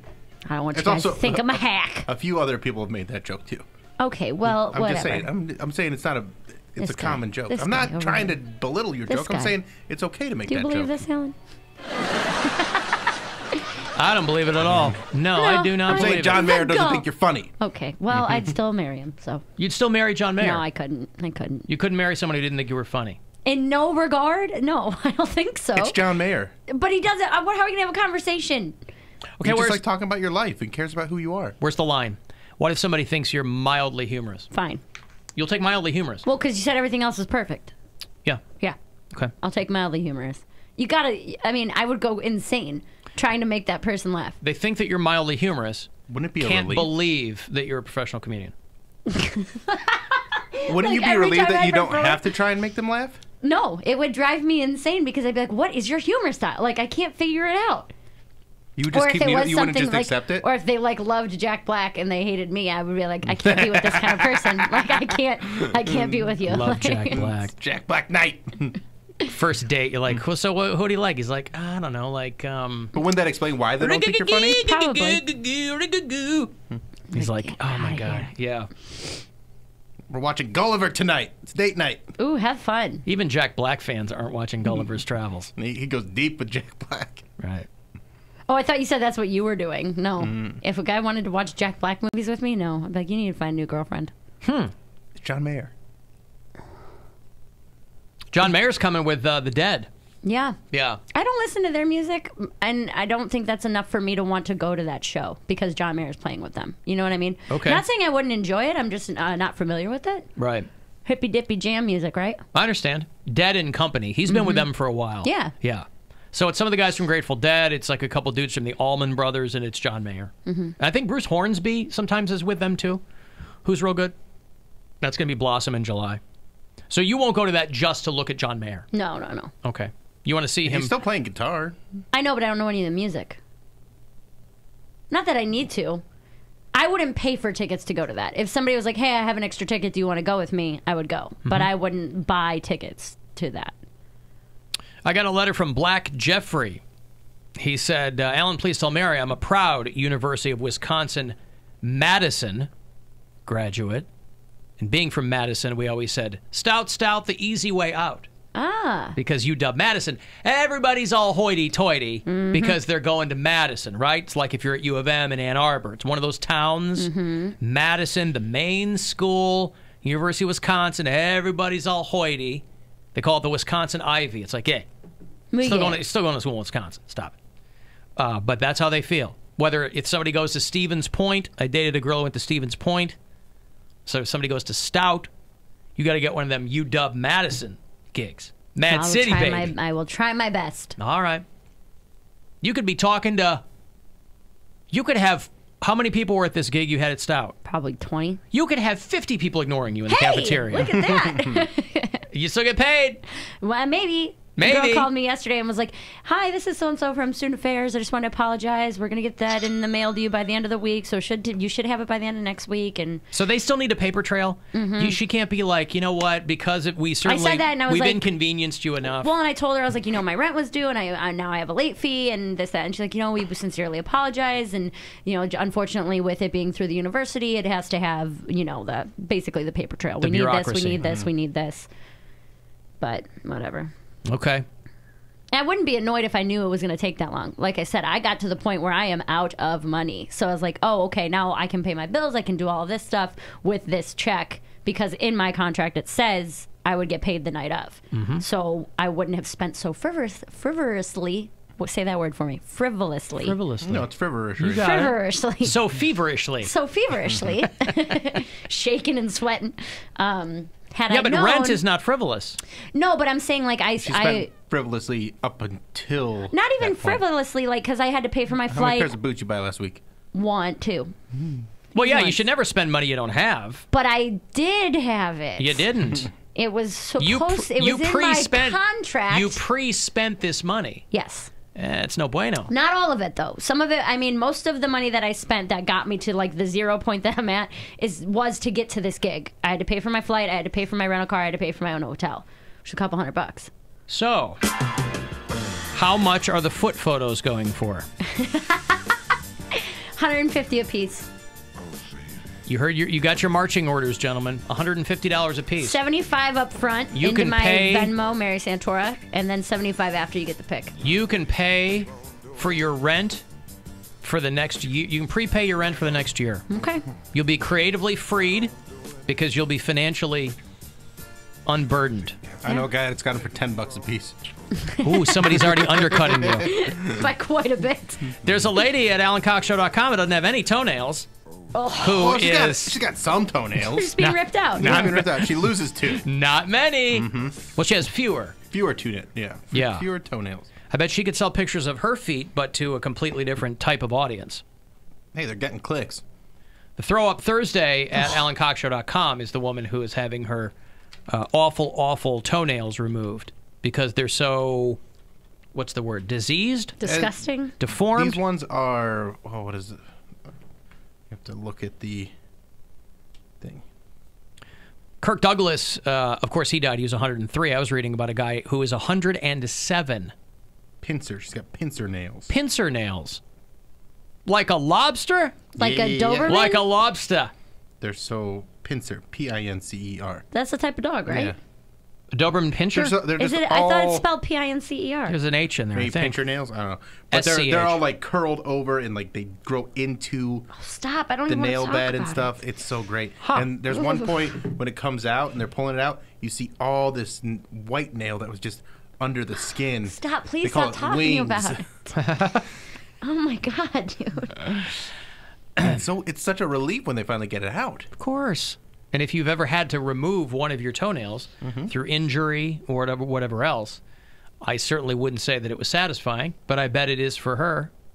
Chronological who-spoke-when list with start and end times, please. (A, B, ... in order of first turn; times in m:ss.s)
0:00.5-0:02.1 A
0:00.7-0:03.6 B
0:04.0-0:05.3 A
0:04.5-0:10.9 B
0:06.8-0:08.4 A
0:09.1-0:09.5 A
0:10.5-0:11.4 A
0:13.9-0:16.5 C
0:14.6-0:15.0 B
0:15.3-0:17.0 A
0:15.9-0:17.5 B
0:17.6-0:19.4 A
0:19.6-0:20.6 C
0:20.4-0:21.7 A
0:21.7-0:23.2 C
0:23.4-0:26.0 A
0:25.8-0:26.5 B
0:26.7-0:28.8 A
0:29.4-0:29.8 C
0:29.4-0:31.6 B
0:31.6-0:34.5 C
0:34.5-0:34.8 A
0:35.3-0:36.2 C
0:36.2-0:37.7 A
0:39.4-0:44.4 A
0:44.4-0:45.9 C
0:46.1-0:46.9 B
0:46.4-0:48.5 C
0:49.1-0:52.3 A
0:50.7-0:53.2 B
0:53.4-0:57.9 A
0:58.8-1:00.5 B
0:58.9-1:07.2 A
1:03.3-1:04.9 B
1:05.8-1:06.3 B
1:06.4-1:07.5 C
1:07.1-1:08.8 B
1:09.2-1:12.9 C
1:12.9-1:14.6 B
1:13.8-1:16.5 C
1:14.6-1:15.2 A
1:17.1-1:18.7 C
1:17.1-1:18.3 A
1:20.1-1:22.1 B
1:22.2-1:23.0 A
1:23.0-1:25.5 C
1:25.6-1:27.2 B
1:27.4-1:27.7 C
1:28.5-1:34.1 A
1:30.2-1:30.6 B
1:34.4-1:34.7 C
1:35.2-1:35.7 B
1:38.3-1:39.9 C
1:40.2-1:40.6 A
1:40.7-1:41.0 C
1:41.1-1:50.3 A
1:47.5-1:47.8 C
1:50.4-1:50.7 C
1:51.0-1:52.4 A
1:52.5-2:03.0 C
1:54.3-1:54.7 A
1:55.2-1:55.5 A
2:00.4-2:00.7 A
2:03.6-2:04.1 C
2:05.0-2:06.2 C
2:06.9-2:08.9 C
2:08.9-2:09.5 A
2:09.6-2:10.9 C
2:10.6-2:11.8 B
2:12.1-2:13.4 A
2:15.1-2:16.0 A
2:16.8-2:23.8 A
2:25.0-2:26.8 C
2:27.6-2:32.7 C
2:33.5-2:34.1 C
2:34.8-2:38.3 C
2:38.6-2:39.2 A
2:39.2-2:47.1 C
2:42.3-2:42.8 A
2:47.0-2:47.6 A
2:47.6-2:52.6 C
2:53.2-2:54.9 C
2:55.5-2:56.0 A
2:55.6-2:57.4 C
2:58.2-3:03.2 C
3:04.1-3:05.3 C
3:06.0-3:09.7 C
3:08.9-3:11.0 A
3:11.0-3:11.4 C
3:12.6-3:13.6 C
3:14.9-3:17.6 C
3:17.6-3:18.4 A
3:18.5-3:21.0 C
3:20.1-3:22.2 A
3:20.8-3:21.7 B
3:22.3-3:23.2 C
3:23.6-3:33.2 A
3:24.6-3:25.1 C
3:33.3-3:39.3 C
3:34.7-3:35.2 A
3:37.2-3:38.3 A
3:39.2-3:51.9 A
3:50.2-3:51.0 C
3:53.0-3:53.9 A
3:54.3-3:54.6 C
3:55.5-4:13.6 A
4:08.1-4:08.4 C
4:13.4-4:16.7 C
4:13.8-4:14.9 B
4:14.8-4:15.8 A
4:16.6-4:21.8 A
4:21.1-4:22.6 C
4:22.9-4:24.5 A
4:24.0-4:27.2 B
4:26.5-4:29.1 A
4:28.7-4:30.0 B
4:30.3-4:31.1 A
4:31.9-4:33.8 C
4:32.0-4:32.4 A
4:33.9-4:35.9 A
4:35.6-4:36.3 C
4:36.5-4:39.6 A
4:37.2-4:41.1 C
4:41.1-4:41.5 A
4:41.7-4:42.7 C
4:42.7-4:53.7 A
4:54.1-4:54.6 C
4:55.9-4:58.1 C
4:58.3-4:59.0 A
5:00.2-5:01.3 A
5:02.7-5:06.0 C
5:05.8-5:10.9 A
5:07.1-5:08.1 C
5:11.0-5:13.4 C
5:14.2-5:16.6 C
5:16.7-5:17.1 A
5:17.3-5:18.7 C
5:19.2-5:20.6 C
5:21.7-5:22.4 C
5:22.6-5:24.4 B
5:25.0-5:25.3 A
5:25.0-5:26.7 C
5:25.5-5:27.2 B
5:26.5-5:28.3 A
5:28.4-5:31.3 C
5:31.7-5:32.2 A
5:32.0-5:33.0 C
5:32.1-5:34.2 B
5:33.8-5:35.0 A
5:34.2-5:35.7 C
5:34.8-5:36.2 B
5:36.2-5:38.6 C
5:37.1-5:37.6 B
5:38.7-5:40.7 B
5:39.7-5:40.1 C
5:40.9-5:44.6 C
5:45.3-5:46.2 B
5:47.0-5:50.7 C
5:51.3-5:55.0 C
5:55.7-5:57.0 C
5:57.0-5:57.8 A
5:57.0-5:57.4 B
5:57.8-5:58.4 C
5:58.1-6:00.0 B
6:01.3-6:02.3 B
6:05.2-6:10.3 C
6:11.0-6:12.6 B
6:12.5-6:13.4 C
6:14.4-6:15.6 C
6:15.8-6:16.6 B
6:15.8-6:16.9 A
6:16.4-6:17.5 C
6:18.0-6:20.4 B
6:20.5-6:21.6 A
6:21.3-6:21.6 B
6:22.3-6:23.2 C
6:22.9-6:24.2 B
6:23.4-6:25.4 A
6:25.3-6:26.4 C
6:25.9-6:30.7 B
6:27.3-6:28.0 C
6:30.8-6:32.5 A
6:31.5-6:41.8 B
6:33.4-6:33.7 C
6:40.1-6:42.1 A
6:42.2-6:42.7 C
6:43.2-6:45.0 A
6:45.8-6:48.1 B
6:48.1-6:54.0 C
6:51.6-6:51.9 B
6:54.6-6:57.9 C